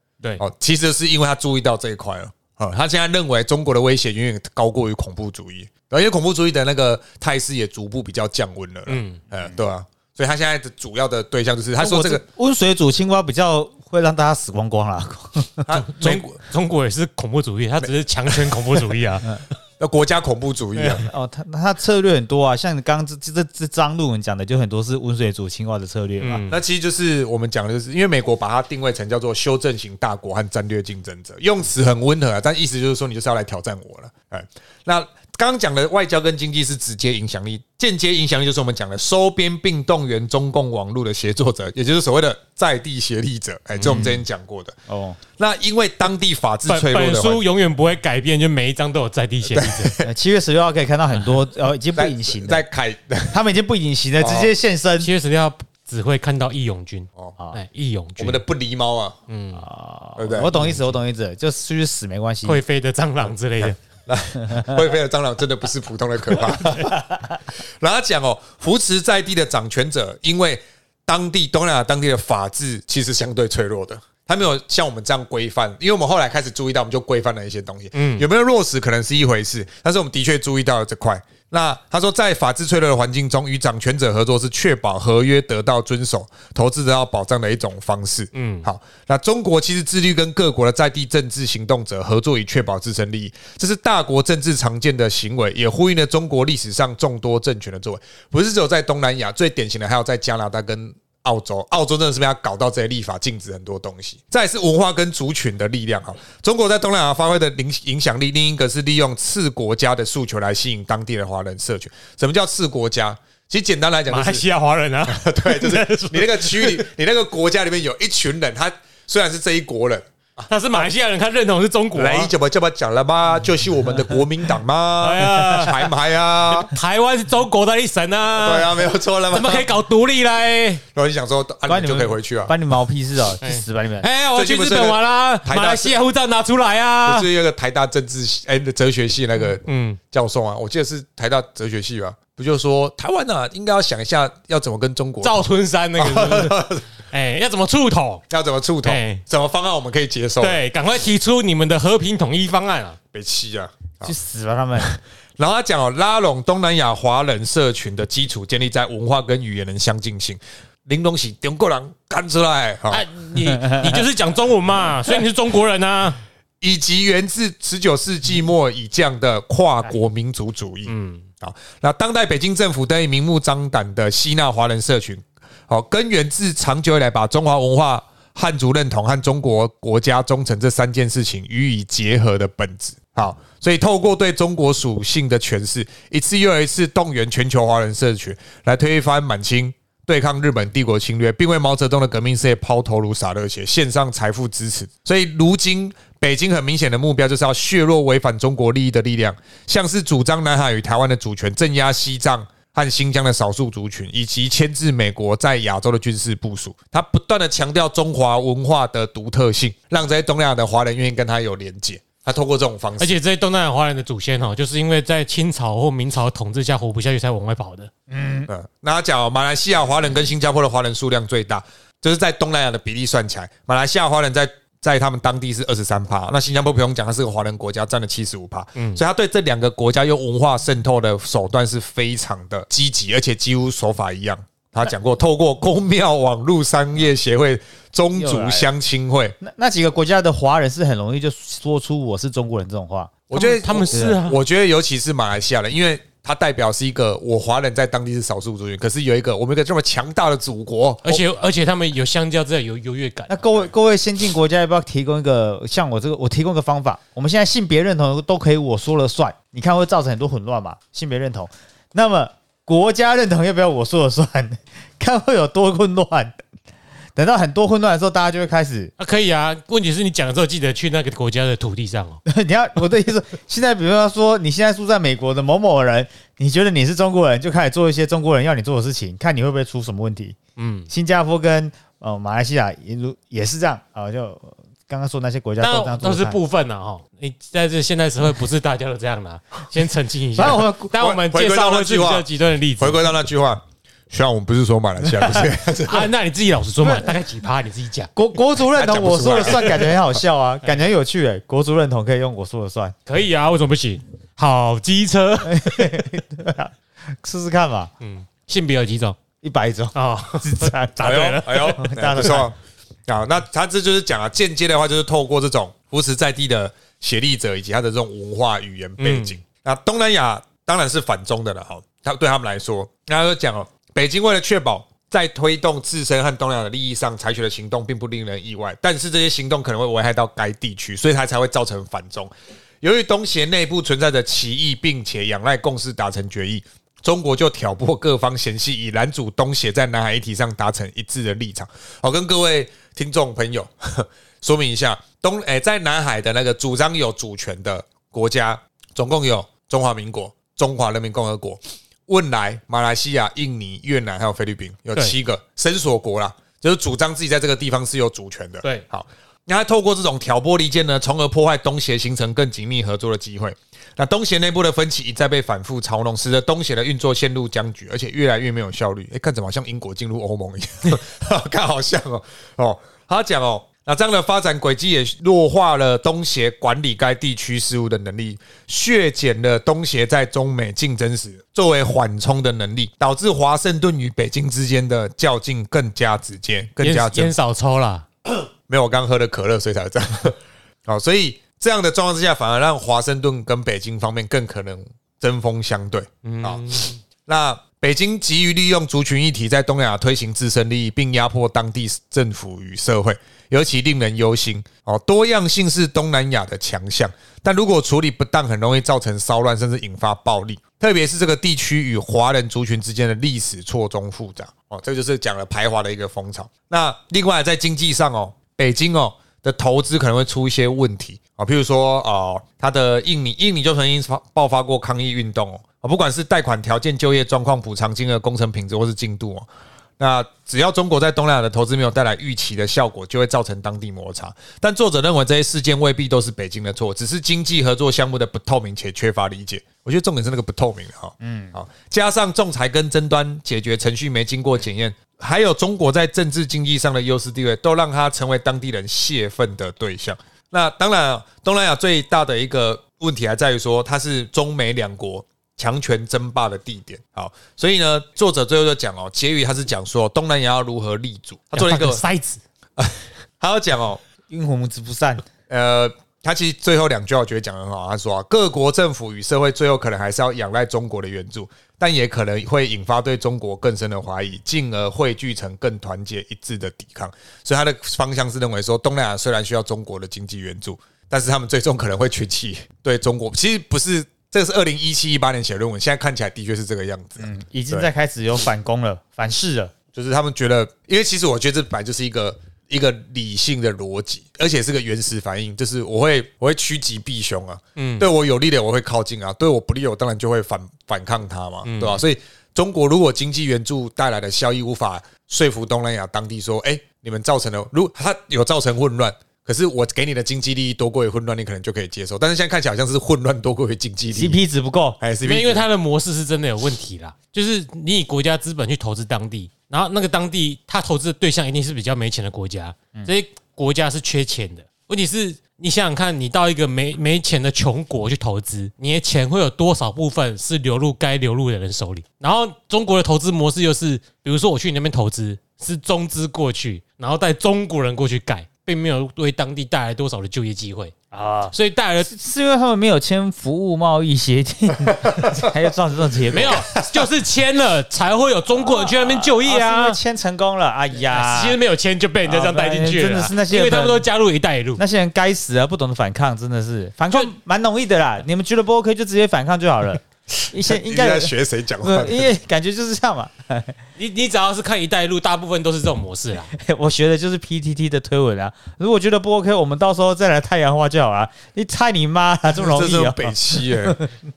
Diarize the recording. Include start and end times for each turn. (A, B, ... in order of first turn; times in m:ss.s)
0:00.4-0:12.2 A
0:08.9-0:09.2 B
0:11.8-0:15.7 C
0:15.7-0:16.4 A
0:15.7-0:19.4 B
0:17.8-0:18.6 A
0:19.8-0:21.1 A
0:20.8-0:26.4 C
0:26.2-0:26.6 B
0:26.5-0:44.8 A
0:43.8-0:44.2 B
0:43.8-0:44.1 C
0:44.9-0:45.2 C
0:45.4-0:47.4 A
0:46.7-0:50.0 B
0:49.5-0:50.1 A
0:50.0-0:52.6 C
0:52.0-0:53.4 A
0:53.3-0:55.1 C
0:54.2-0:54.5 A
0:55.0-0:58.4 B
0:58.2-0:59.2 A
0:59.3-0:59.6 B
0:59.6-1:02.6 C
1:00.2-1:00.6 A
1:00.5-1:00.9 B
1:02.4-1:03.8 B
1:03.6-1:07.0 A
1:04.4-1:04.8 C
1:07.8-1:54.4 A
1:17.9-1:18.3 B
1:28.3-1:28.7 B
1:54.1-1:56.8 B
1:55.1-2:00.8 A
2:00.5-2:02.3 B
2:02.0-2:06.7 A
2:05.0-2:05.9 B
2:06.5-2:10.8 B
2:08.4-2:09.7 A
2:10.9-2:12.5 A
2:11.7-2:14.1 C
2:13.4-2:17.3 B
2:14.3-2:16.0 A
2:17.0-2:25.4 A
2:19.7-2:20.0 B
2:25.2-2:28.2 B
2:26.0-2:26.8 A
2:28.3-2:30.6 A
2:28.8-2:29.2 B
2:30.4-2:33.0 B
2:33.1-2:34.1 A
2:34.0-2:34.9 C
2:35.4-2:43.1 A
2:42.9-2:46.2 B
2:46.6-3:33.2 A
2:50.9-2:51.3 B
3:33.0-3:37.9 B
3:38.1-3:38.5 C
3:38.5-3:59.4 A
3:48.8-3:49.0 B
3:58.1-3:58.7 C
3:59.4-4:03.2 C
4:03.3-4:11.2 A
4:03.3-4:04.4 B
4:03.9-4:04.2 C
4:11.0-4:13.7 B
4:13.3-4:26.3 C
4:27.2-4:28.9 C
4:29.0-4:32.2 B
4:32.3-4:40.4 C
4:40.6-4:40.9 B
4:40.9-4:46.4 C
4:45.6-4:53.0 B
4:50.4-4:50.9 C
4:51.0-4:52.3 A
4:52.8-4:56.1 A
4:55.8-4:58.1 B
4:56.8-4:57.1 C
4:58.2-5:03.0 C
4:58.8-5:00.2 A
5:03.1-5:06.0 B
5:05.4-5:07.9 C
5:08.0-5:09.2 B
5:09.4-5:12.5 C
5:10.0-5:11.9 B
5:11.0-5:12.5 A
5:13.1-5:32.3 A
5:19.0-5:19.4 B
5:32.8-6:27.3 A
6:26.8-6:28.1 B
6:28.3-6:36.7 A
6:36.2-6:37.0 B
6:37.2-7:09.5 A
7:10.0-7:42.0 A
7:21.2-7:21.6 C
7:41.5-7:42.4 B
7:42.8-7:44.0 A
7:44.3-7:45.3 C
7:45.5-8:07.9 A
8:07.2-8:09.7 C
8:09.9-8:34.4 A
8:17.8-8:18.1 B
8:21.6-8:22.0 B
8:34.1-8:35.0 C
8:35.0-8:35.7 A
8:35.2-9:00.9 B
9:01.1-9:01.5 C
9:01.5-9:02.1 B
9:02.1-9:06.7 C
9:05.0-9:05.4 A
9:06.3-9:10.0 B
9:06.3-9:07.1 A
9:08.6-9:11.6 C
9:11.1-9:14.8 B
9:12.2-9:14.0 C
9:14.8-9:23.8 C
9:20.7-9:22.3 A
9:24.0-9:26.5 B
9:26.5-9:34.1 C
9:32.5-9:34.0 A